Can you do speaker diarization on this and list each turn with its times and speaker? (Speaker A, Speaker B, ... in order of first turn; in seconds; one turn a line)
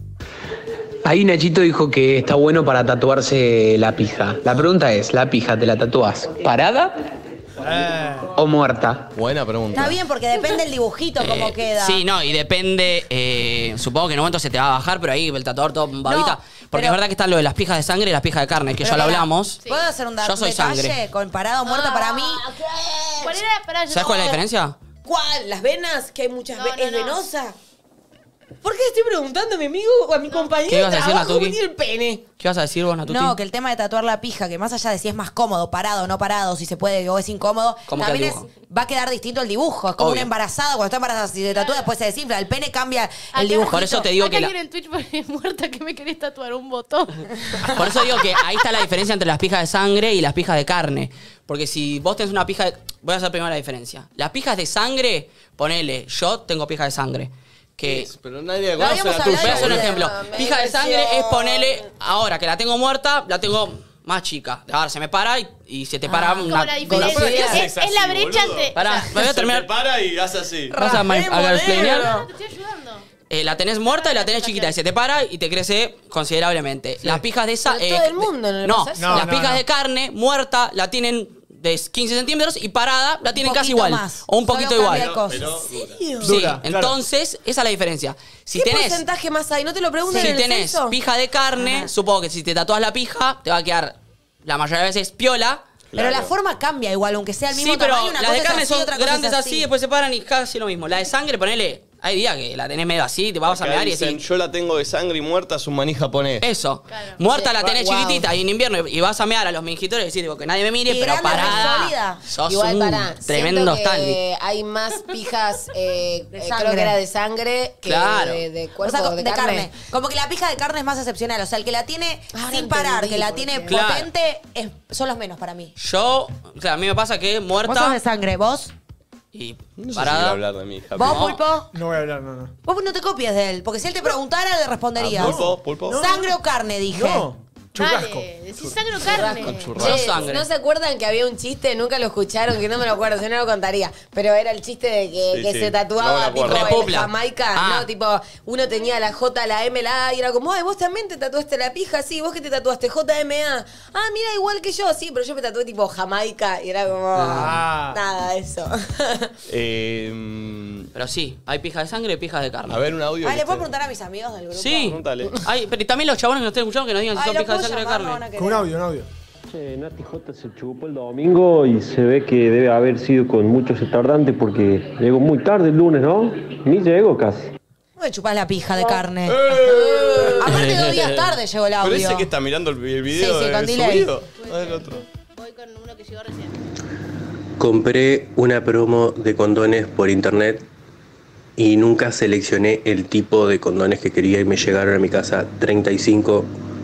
Speaker A: 1.1-6.8
Speaker B: 7.6-8.3
Speaker A: 8.4-8.9
Speaker C: 9.2-10.0
Speaker D: 9.7-12.1
Speaker E: 11.2-19.6
Speaker D: 16.1-17.0
Speaker D: 18.8-22.4
Speaker E: 20.2-21.0
Speaker F: 21.7-23.4
Speaker G: 23.2-24.4
Speaker E: 23.9-24.8
Speaker F: 25.1-27.6
Speaker G: 26.6-27.2
Speaker F: 28.6-32.2
Speaker E: 30.7-31.6
Speaker E: 32.4-33.4
Speaker D: 33.0-44.1
Speaker E: 37.9-38.5
Speaker E: 40.0-40.3
Speaker G: 41.5-41.9
Speaker G: 43.3-48.4
Speaker E: 43.7-44.5
Speaker E: 47.7-58.1
Speaker C: 57.8-60.0
Speaker D: 58.8-60.1
Speaker E: 59.1-67.5
Speaker F: 59.9-61.8
Speaker D: 66.1-67.6
Speaker G: 66.4-69.1
Speaker C: 66.9-70.9
Speaker E: 68.8-69.7
Speaker D: 70.7-72.2
Speaker E: 70.8-72.2
Speaker G: 71.6-73.1
Speaker E: 73.3-85.2
Speaker G: 73.8-74.8
Speaker F: 77.7-79.3
Speaker B: 79.0-79.6
Speaker D: 83.3-85.5
Speaker C: 84.8-86.1
Speaker F: 85.7-86.4
Speaker B: 86.2-87.0
Speaker E: 86.3-89.0
Speaker F: 88.5-91.0
Speaker D: 90.1-90.4
Speaker E: 90.1-95.6
Speaker D: 91.6-91.9
Speaker C: 95.9-96.3
Speaker D: 96.0-99.7
Speaker E: 97.5-104.2
Speaker C: 103.5-106.5
Speaker E: 106.4-114.2
Speaker G: 106.9-107.2
Speaker F: 107.3-108.2
Speaker D: 110.9-112.2
Speaker F: 112.5-119.7
Speaker D: 116.4-117.0
Speaker E: 117.8-118.4
Speaker D: 118.8-125.7
Speaker F: 122.3-123.7
Speaker E: 123.7-124.1
Speaker E: 125.8-128.0
Speaker D: 127.6-128.7
Speaker E: 129.3-130.4
Speaker C: 129.8-131.3
Speaker D: 131.0-131.7
Speaker E: 131.0-131.4
Speaker B: 131.7-132.5
Speaker D: 132.7-137.3
Speaker C: 135.0-136.0
Speaker B: 135.2-136.3
Speaker B: 136.9-138.3
Speaker G: 137.8-139.9
Speaker C: 138.6-140.3
Speaker F: 139.1-159.3
Speaker E: 139.7-140.4
Speaker C: 145.3-146.9
Speaker E: 146.4-147.9
Speaker B: 157.2-158.0
Speaker C: 159.5-160.9
Speaker E: 160.9-162.8
Speaker C: 162.7-163.7
Speaker D: 163.2-165.0
Speaker E: 164.6-168.2
Speaker C: 164.8-165.4
Speaker D: 167.1-168.7
Speaker B: 168.3-169.1
Speaker H: 169.6-177.5
Speaker D: 178.0-182.3
Speaker C: 179.3-180.9
Speaker F: 179.7-180.7
Speaker E: 180.6-181.0
Speaker C: 181.8-185.1
Speaker D: 183.1-184.1
Speaker G: 184.4-186.6
Speaker I: 187.6-190.7
Speaker I: 191.6-196.5